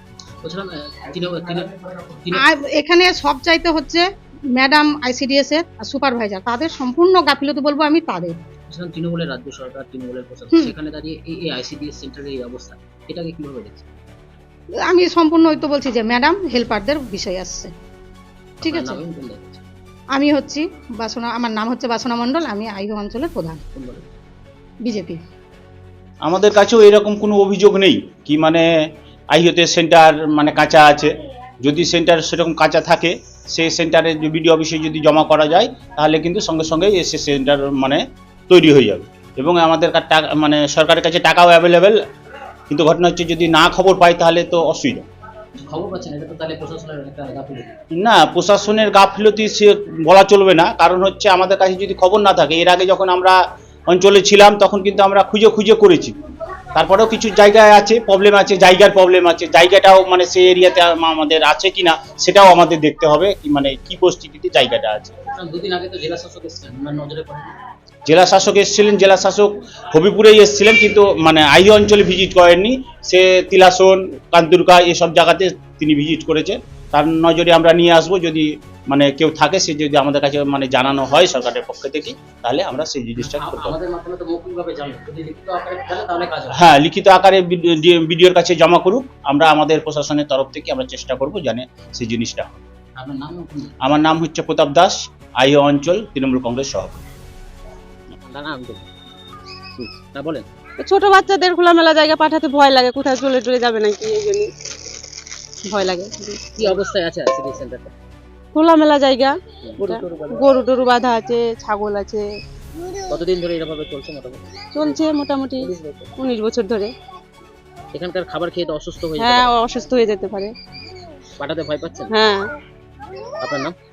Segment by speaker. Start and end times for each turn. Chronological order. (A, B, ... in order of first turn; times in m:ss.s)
0:00.4-0:02.4 A
0:02.3-0:08.4 B
0:08.7-0:13.9 A
0:14.8-0:17.7 B
0:18.6-0:19.6 A
0:18.6-0:19.0 B
0:20.1-0:23.6 B
0:23.7-0:24.0 A
0:24.8-0:25.2 B
0:26.2-0:28.6 C
0:29.3-0:42.0 C
0:42.7-0:45.0 C
0:45.6-0:47.7 A
0:48.0-0:53.3 C
0:53.9-0:56.1 C
0:56.7-1:05.2 C
1:05.3-1:07.5 A
1:08.1-1:23.7 C
1:23.2-1:26.6 A
1:26.5-1:32.6 C
1:33.0-1:33.7 A
1:33.8-1:37.0 C
1:38.2-1:38.9 A
1:40.1-1:40.4 A
1:40.8-1:44.5 D
1:45.7-1:46.5 D
1:46.6-1:47.9 A
1:48.5-1:52.3 D
1:49.6-1:50.5 A
1:53.1-1:55.0 A
1:54.7-1:56.9 D
1:55.6-1:56.1 A
1:57.9-1:59.5 A
1:59.2-2:00.5 D
2:01.4-2:02.1 A
2:02.1-2:02.5 D
2:03.4-2:03.7 A